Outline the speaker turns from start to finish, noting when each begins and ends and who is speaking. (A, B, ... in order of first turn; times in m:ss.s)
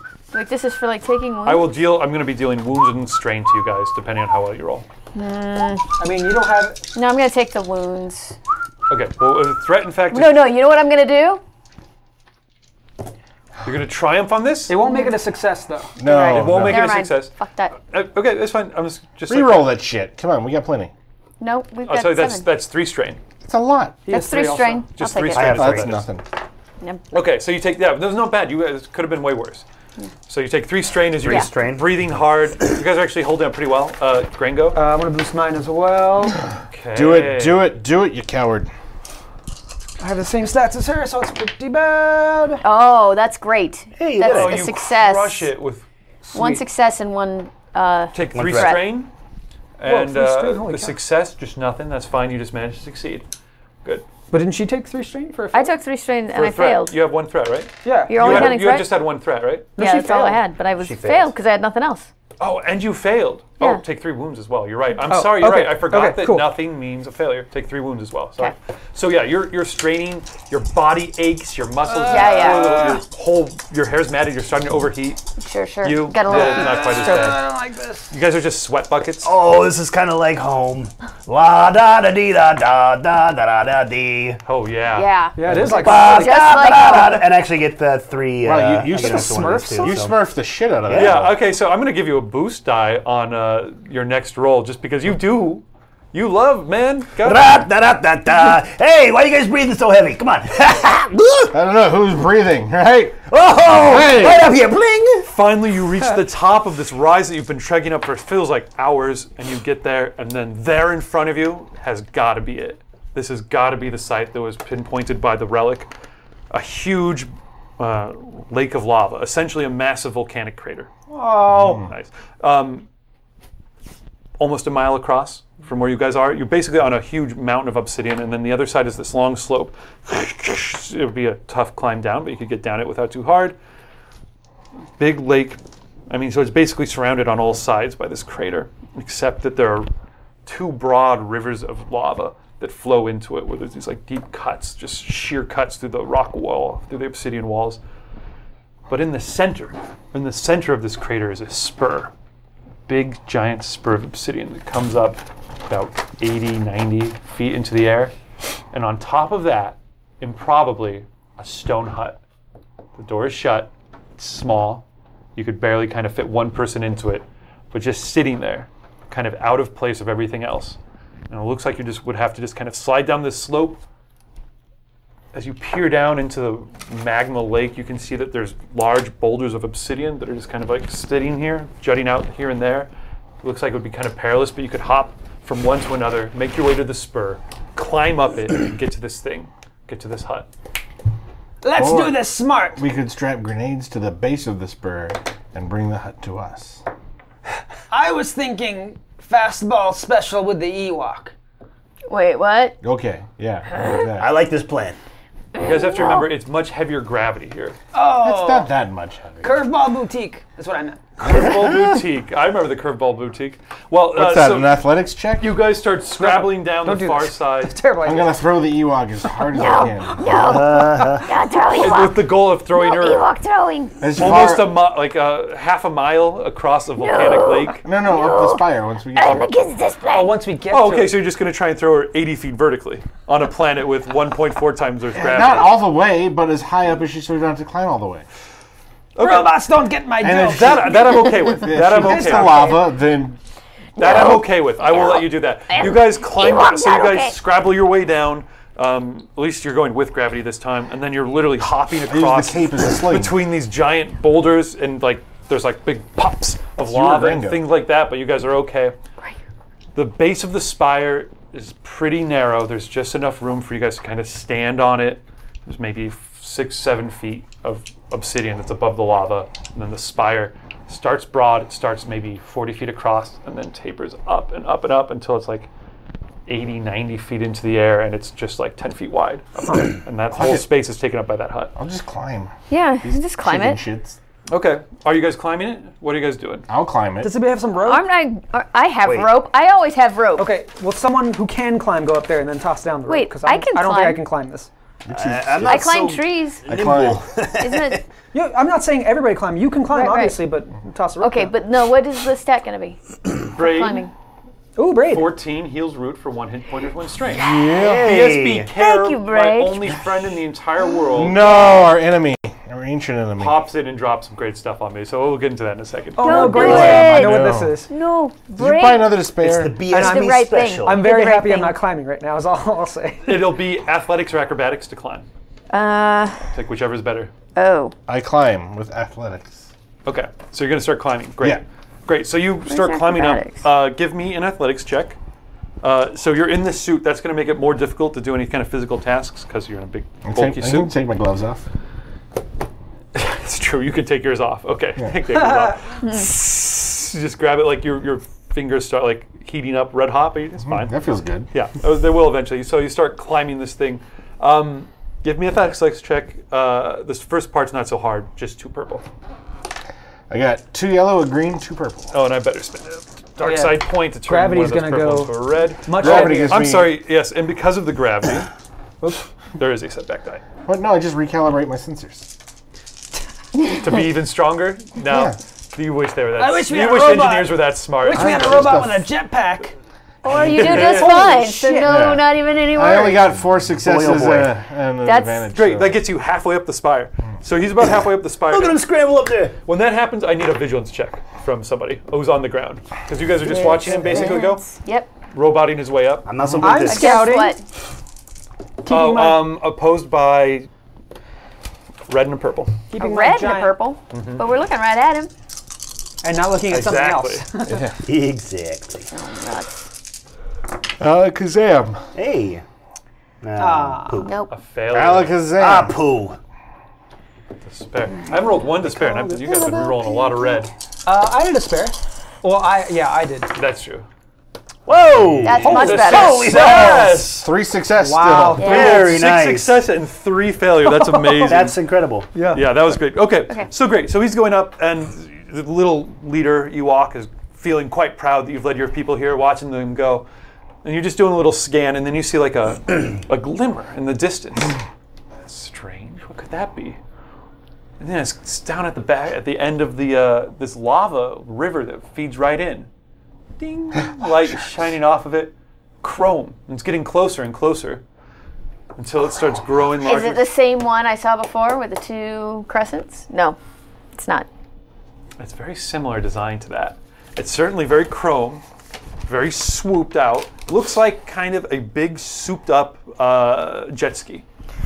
0:00.3-0:01.7 A
0:01.4-0:04.8 B
0:05.1-0:05.9 A
0:06.0-0:06.8 C
0:06.9-0:08.3 A
0:08.9-0:10.5 B
0:10.1-0:11.4 A
0:13.6-0:14.8 B
0:14.7-0:15.9 C
0:14.8-0:15.2 A
0:16.0-0:16.9 D
0:16.0-0:17.7 A
0:16.2-0:19.8 B
0:19.3-0:20.9 D
0:21.4-0:22.5 A
0:21.8-0:23.2 B
0:23.4-0:24.0 D
0:24.0-0:24.8 C
0:24.1-0:25.6 A
0:25.0-0:26.1 B
0:25.3-0:25.9 E
0:25.5-0:26.2 D
0:27.1-0:29.6 B
0:30.3-0:34.8 B
0:31.2-0:32.2 E
0:34.7-0:36.4 C
0:36.7-0:37.8 B
0:36.9-0:38.7 D
0:40.0-0:42.6 C
0:42.6-0:45.5 A
0:44.0-0:44.7 E
0:44.2-0:45.9 B
0:46.2-0:46.6 C
0:46.3-0:49.0 A
0:48.1-0:49.1 B
0:48.3-0:48.8 E
0:49.8-0:53.2 B
0:49.8-0:51.0 C
0:53.8-0:54.1 B
0:54.3-0:55.7 C
0:55.5-0:57.0 A
0:56.3-0:59.8 B
0:57.8-0:58.6 C
0:58.1-0:58.9 A
0:59.8-1:00.4 C
0:59.8-1:02.1 A
1:00.8-1:01.3 E
1:02.4-1:15.2 B
1:05.0-1:06.5 C
1:11.8-1:13.0 C
1:12.1-1:13.0 A
1:15.4-1:17.1 A
1:15.8-1:17.4 B
1:16.2-1:18.1 C
1:18.1-1:19.3 B
1:19.2-1:24.4 E
1:24.4-1:25.1 B
1:24.9-1:27.2 A
1:25.4-1:26.6 C
1:25.4-1:30.2 E
1:28.4-1:31.4 D
1:29.0-1:30.0 C
1:30.8-1:31.2 E
1:30.9-1:37.6 B
1:37.2-1:41.5 E
1:41.5-1:44.4 D
1:43.3-1:45.3 E
1:45.2-1:55.9 B
1:56.5-2:00.9 B
2:01.1-2:01.8 C
2:01.5-2:02.9 B
2:04.4-2:13.6 B
2:15.0-2:19.9 B
2:20.4-2:27.8 B
2:28.9-2:32.1 B
2:32.9-2:38.1 B
2:38.7-2:42.2 B
2:43.0-2:44.8 B
2:45.4-2:50.8 B
2:51.3-2:53.8 B
2:55.3-3:02.9 B
3:03.4-3:10.5 B
3:11.6-3:12.8 C
3:11.8-3:16.8 D
3:17.9-3:21.3 C
3:22.1-3:22.8 A
3:22.8-3:24.3 D
3:24.2-3:25.0 E
3:25.6-3:26.2 A
3:25.6-3:27.8 B
3:27.9-3:28.7 C
3:28.2-3:29.6 D
3:29.4-3:31.3 C
3:31.2-3:34.8 B
3:34.1-3:35.6 D
3:35.4-3:37.8 B
3:36.2-3:38.3 C
3:38.0-3:40.6 D
3:39.5-3:44.0 A
3:40.3-3:41.3 E
3:41.8-3:43.3 B
3:44.0-3:44.8 D
3:44.2-3:47.8 B
3:47.0-3:48.6 A
3:47.8-3:49.4 D
3:49.1-3:50.4 A
3:50.1-3:51.2 C
3:50.7-3:55.8 B
3:55.1-3:58.2 D
3:59.2-3:59.6 B
3:59.2-4:02.8 C
4:00.2-4:03.4 D
4:00.3-4:02.8 B
4:04.0-4:07.4 A
4:04.0-4:18.9 B
4:12.1-4:13.4 D
4:16.8-4:17.6 D
4:19.9-4:35.7 B
4:36.4-4:41.7 B
4:40.3-4:40.6 D
4:41.8-4:44.2 D
4:42.7-4:43.8 A
4:44.5-4:46.7 B
4:46.7-4:47.3 D
4:47.2-4:48.0 C
4:47.8-4:50.5 A
4:49.0-4:49.3 E
4:50.4-4:54.7 C
4:53.1-4:54.2 A
4:55.0-4:55.8 D
4:55.1-4:58.0 E
4:55.6-4:56.6 A
4:56.6-4:57.2 D
4:57.6-4:58.0 A
4:58.3-5:01.5 C
4:59.9-5:00.4 A
5:01.2-5:03.0 A
5:03.5-5:04.1 A
5:03.5-5:04.1 B
5:04.8-5:05.3 C
5:05.0-5:11.4 B
5:07.4-5:08.1 D
5:07.5-5:08.7 E
5:08.7-5:09.9 A
5:11.1-5:13.6 D
5:11.3-5:11.9 A
5:13.4-5:17.0 B
5:16.2-5:17.9 C
5:16.2-5:19.2 A
5:16.6-5:17.8 D
5:18.5-5:19.8 D
5:19.4-5:21.0 E
5:19.9-5:21.8 A
5:19.9-5:23.5 C
5:23.2-5:25.2 B
5:25.7-5:26.4 A
5:26.5-5:27.3 B
5:27.6-5:27.9 A
5:28.1-5:29.7 D
5:30.0-5:35.2 B
5:32.7-5:33.6 A
5:35.8-5:40.9 B
5:40.2-5:41.6 D
5:43.1-5:51.0 B
5:45.3-5:45.8 C
5:50.6-5:51.5 D
5:51.5-5:59.0 B
6:00.3-6:02.1 D
6:02.1-6:08.5 B
6:03.4-6:06.6 C
6:06.0-6:07.0 D
6:09.4-6:10.4 B
6:10.6-6:12.3 D
6:13.6-6:18.8 B
6:15.0-6:15.4 D
6:16.4-6:19.7 C
6:18.1-6:19.1 D
6:20.2-6:23.3 A
6:20.3-6:21.3 B
6:20.4-6:22.0 C
6:21.8-6:26.0 D
6:23.8-6:24.5 E
6:25.0-6:25.5 A
6:25.5-6:28.8 B
6:28.5-6:29.6 E
6:29.6-6:34.6 B
6:33.5-6:35.1 A
6:33.8-6:34.3 E
6:35.3-6:36.3 B
6:36.2-6:37.3 E
6:36.5-6:36.8 D
6:36.6-6:37.6 C
6:36.8-6:37.6 A
6:38.8-6:39.6 C
6:38.9-6:40.7 B
6:42.1-6:42.8 B
6:42.9-6:43.8 C
6:43.0-6:45.3 A
6:44.1-6:44.4 B
6:46.2-6:47.8 C
6:46.7-6:47.4 B
6:47.7-6:47.9 D
6:48.0-6:49.1 E
6:49.1-6:49.8 A
6:51.0-6:52.0 D
6:52.1-6:52.6 E
6:53.4-6:54.4 E
6:53.6-6:54.3 C
6:54.2-6:54.5 A
6:54.5-6:55.4 B
6:54.9-6:56.0 D
6:55.6-6:56.4 E
6:57.6-7:00.7 B
6:59.2-6:59.5 E
7:01.0-7:03.5 C
7:03.5-7:04.1 B
7:04.9-7:07.3 E
7:05.4-7:06.7 A
7:05.6-7:06.4 C
7:05.6-7:07.5 B
7:07.3-7:08.7 D
7:08.0-7:09.1 C
7:08.6-7:09.8 E
7:08.6-7:09.0 A
7:08.6-7:11.8 B
7:11.0-7:11.7 C
7:11.5-7:12.3 E
7:12.3-7:12.7 C
7:12.5-7:20.3 B
7:20.8-7:24.8 B
7:25.4-7:27.0 B
7:28.0-7:32.9 B
7:33.6-7:38.0 B
7:39.0-7:40.5 B
7:40.0-7:43.6 A
7:44.1-7:44.5 A
7:45.4-7:48.6 B
7:49.2-7:54.4 B